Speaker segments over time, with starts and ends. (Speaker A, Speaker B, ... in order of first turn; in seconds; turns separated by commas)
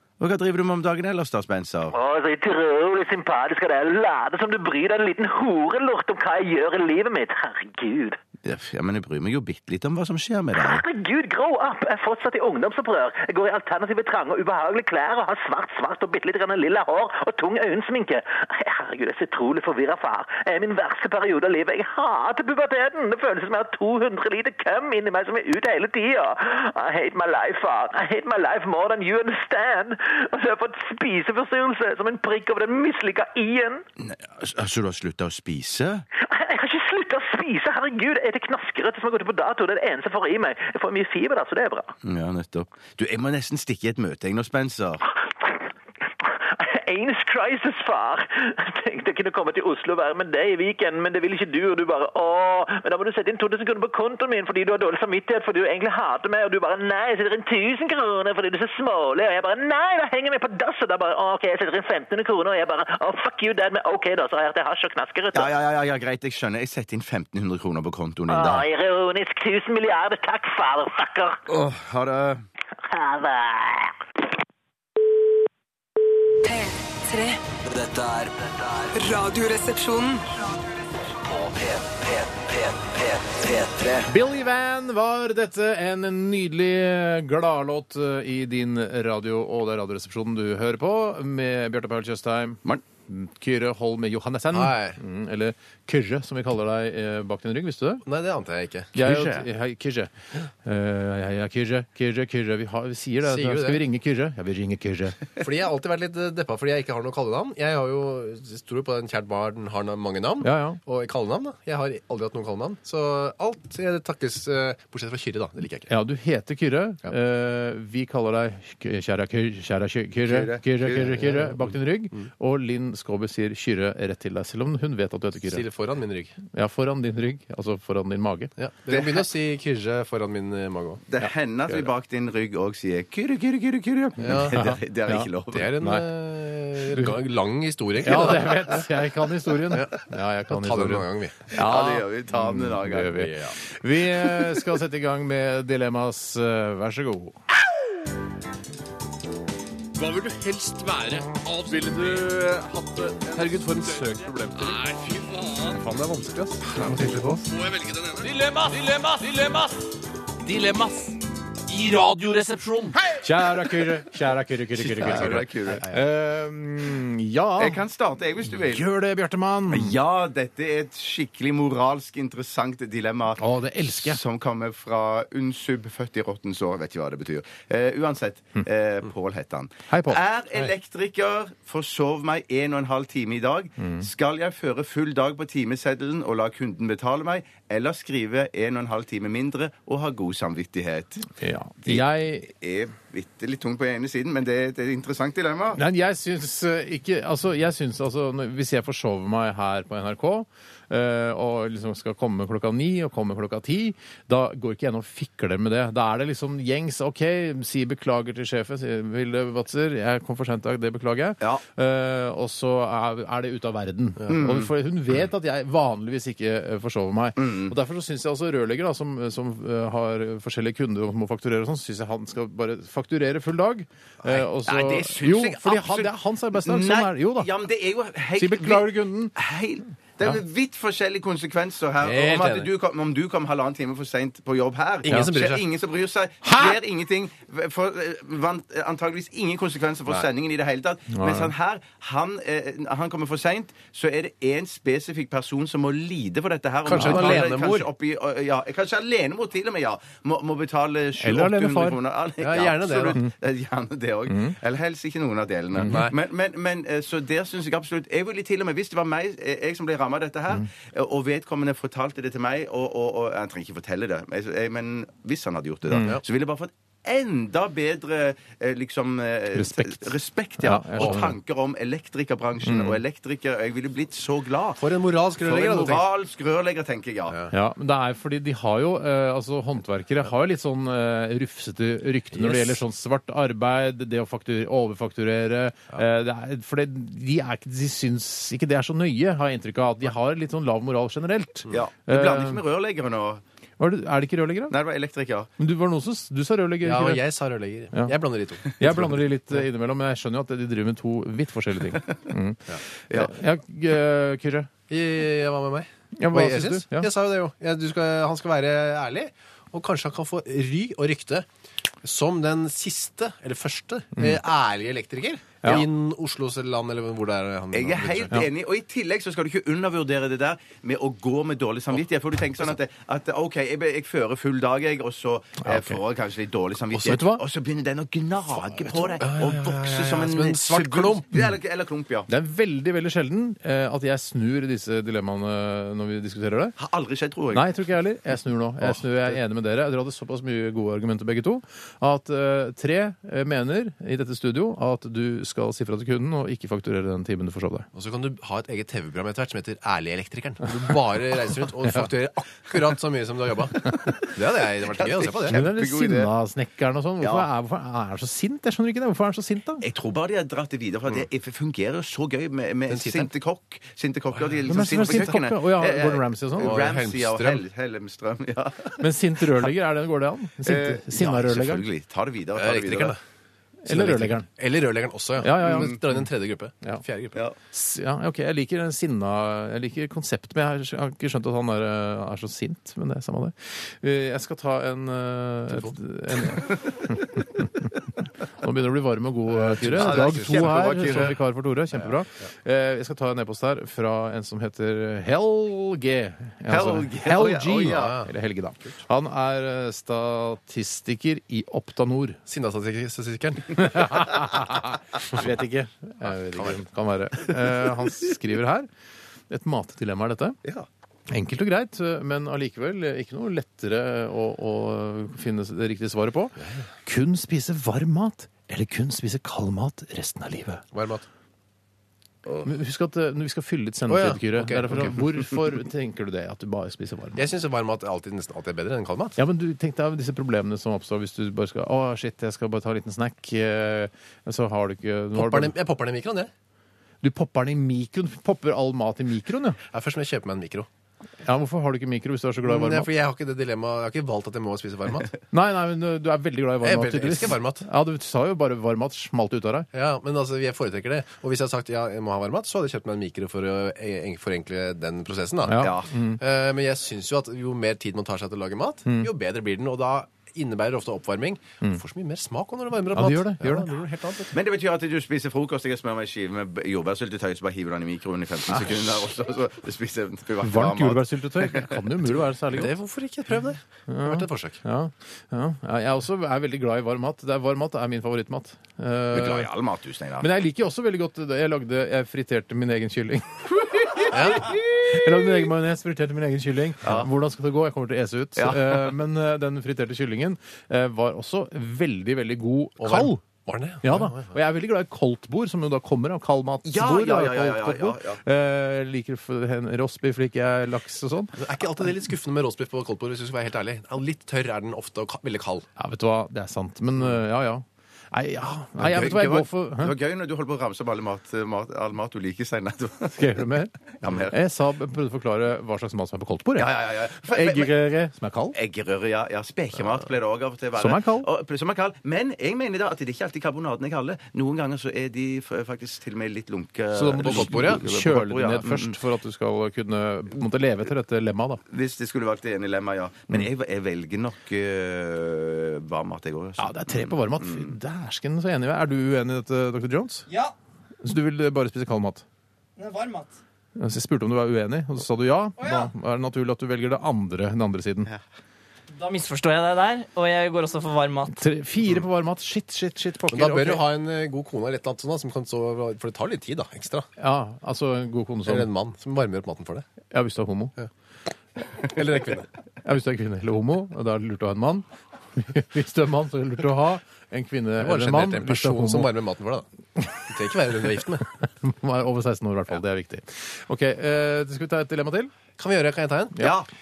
Speaker A: 0.2-2.0, Speaker B: 1.9-8.2, Speaker A: 8.4-10.8, Speaker B: 10.6-33.8, Speaker A: 34.0-36.0, Speaker B: 36.2-41.9, Speaker A: 42.0-45.0, Speaker B: 46.2-65.5, Speaker A: 65.3-68.7, Speaker B: 68.3-71.4, Speaker A: 71.5-72.4, Speaker B: 72.9-74.0, Speaker C: 76.4-77.4, Speaker D: 77.6-79.0, Speaker C: 78.9-80.7, Speaker D: 81.1-84.1, Speaker E: 84.1-98.0, Speaker F: 94.5-95.0, Speaker F: 98.0-98.9, Speaker E: 98.9-100.1, Speaker A: 99.0-99.5, Speaker E: 100.6-105.2, Speaker F: 103.2-103.8, Speaker F: 105.4-115.9, Speaker E: 110.4-110.8, Speaker E: 115.9-125.6, Speaker A: 120.2-121.2, Speaker F: 125.4-126.4, Speaker E: 126.5-128.5, Speaker F: 128.6-131.0, Speaker A: 128.9-129.2, Speaker A: 131.1-135.8, Speaker E: 131.2-131.9, Speaker F: 134.2-134.5, Speaker E: 134.3-136.1, Speaker F: 135.5-138.9, Speaker E: 136.9-137.2, Speaker E: 138.0-147.4, Speaker F: 139.7-141.5, Speaker A: 141.5-143.3, Speaker F: 143.1-143.5, Speaker G: 149.9-159.9, Speaker F: 153.4-154.1, Speaker F: 156.6-157.4, Speaker G: 160.4-163.1, Speaker E: 163.2-167.8, Speaker A: 164.8-165.9, Speaker A: 167.6-168.9, Speaker E: 168.6-170.0, Speaker A: 169.7-191.3, Speaker E: 173.4-174.2, Speaker E: 179.9-180.7, Speaker E: 191.4-192.5, Speaker A: 191.8-195.8, Speaker E: 195.8-227.5, Speaker A: 214.3-214.7, Speaker A: 217.4-217.7, Speaker A: 224.6-277.4, Speaker E: 228.4-229.3, Speaker F: 232.0-232.7, Speaker F: 235.1-235.6, Speaker E: 236.4-236.8, Speaker E: 241.1-241.5, Speaker F: 246.8-247.9, Speaker E: 246.9-247.5, Speaker E: 251.2-252.0, Speaker F: 252.4-253.2, Speaker E: 254.3-254.6, Speaker E: 255.7-256.0, Speaker F: 255.9-256.1, Speaker E: 265.9-266.2, Speaker E: 269.5-271.3, Speaker F: 271.0-271.2, Speaker E: 272.6-273.0, Speaker F: 274.8-276.1, Speaker E: 277.5-292.6, Speaker F: 282.3-282.8, Speaker A: 291.7-293.4, Speaker E: 293.8-294.8, Speaker A: 294.7-295.5, Speaker E: 295.6-297.2, Speaker F: 296.8-299.2, Speaker E: 297.9-304.7, Speaker F: 304.9-311.4, Speaker E: 306.1-307.1, Speaker F: 312.0-318.4, Speaker E: 314.1-314.4, Speaker A: 317.7-332.3, Speaker E: 325.6-326.0, Speaker E: 326.9-327.4, Speaker F: 329.2-331.4, Speaker E: 332.3-336.7, Speaker A: 336.8-337.7, Speaker E: 337.5-347.9, Speaker F: 347.9-355.6, Speaker E: 351.8-352.1, Speaker A: 354.8-356.3, Speaker E: 355.5-359.8, Speaker A: 357.2-357.5, Speaker A: 359.8-369.7, Speaker F: 362.9-363.3, Speaker E: 364.6-366.7, Speaker F: 366.6-367.6, Speaker E: 369.0-371.8, Speaker A: 370.6-373.2, Speaker F: 372.6-373.2, Speaker E: 373.8-374.5, Speaker F: 373.9-377.4, Speaker E: 375.4-376.2, Speaker A: 375.6-375.9, Speaker E: 377.7-387.9, Speaker F: 385.7-385.9, Speaker E: 388.6-402.4, Speaker F: 389.5-391.3, Speaker A: 389.8-391.4, Speaker A: 396.7-398.2, Speaker F: 397.9-398.3, Speaker F: 402.5-404.2, Speaker E: 403.7-408.9, Speaker E: 409.5-410.6, Speaker E: 411.3-420.8, Speaker F: 416.6-416.9, Speaker F: 420.9-421.2, Speaker E: 422.6-427.4, Speaker F: 424.1-425.2, Speaker F: 427.4-429.4, Speaker E: 429.4-435.7, Speaker F: 435.3-436.5, Speaker E: 437.2-439.8, Speaker F: 439.9-440.9, Speaker E: 441.4-443.1, Speaker F: 442.6-445.3, Speaker E: 445.5-449.9, Speaker F: 446.8-447.9, Speaker F: 449.9-464.5, Speaker E: 455.6-456.4, Speaker A: 455.8-456.1, Speaker E: 463.1-463.9, Speaker A: 464.5-472.4, Speaker E: 468.7-469.0, Speaker E: 470.6-472.9, Speaker F: 472.7-474.8, Speaker E: 474.1-479.7, Speaker A: 479.3-480.5, Speaker E: 480.4-493.4, Speaker F: 484.3-484.7, Speaker A: 487.0-487.3, Speaker A: 488.6-489.1, Speaker F: 493.0-494.5, Speaker E: 494.0-501.6, Speaker A: 496.8-498.4, Speaker F: 501.5-505.9, Speaker E: 506.0-510.1, Speaker A: 509.0-513.5, Speaker E: 513.3-513.9, Speaker A: 514.2-514.5, Speaker E: 514.5-518.8, Speaker A: 516.8-517.9, Speaker A: 518.7-529.2, Speaker E: 521.0-521.5, Speaker E: 527.1-531.8, Speaker F: 527.4-528.0, Speaker A: 531.9-537.9, Speaker E: 536.8-540.5, Speaker E: 541.2-542.4, Speaker G: 543.0-543.5, Speaker E: 544.0-548.3, Speaker H: 549.2-551.5, Speaker E: 551.5-554.0, Speaker F: 553.5-557.3, Speaker E: 557.4-558.9, Speaker F: 558.6-560.0, Speaker E: 560.3-560.9, Speaker F: 562.0-562.7, Speaker E: 563.0-569.3, Speaker F: 568.0-569.9, Speaker F: 570.5-571.5, Speaker E: 571.6-575.5, Speaker F: 575.8-576.7, Speaker A: 576.6-576.9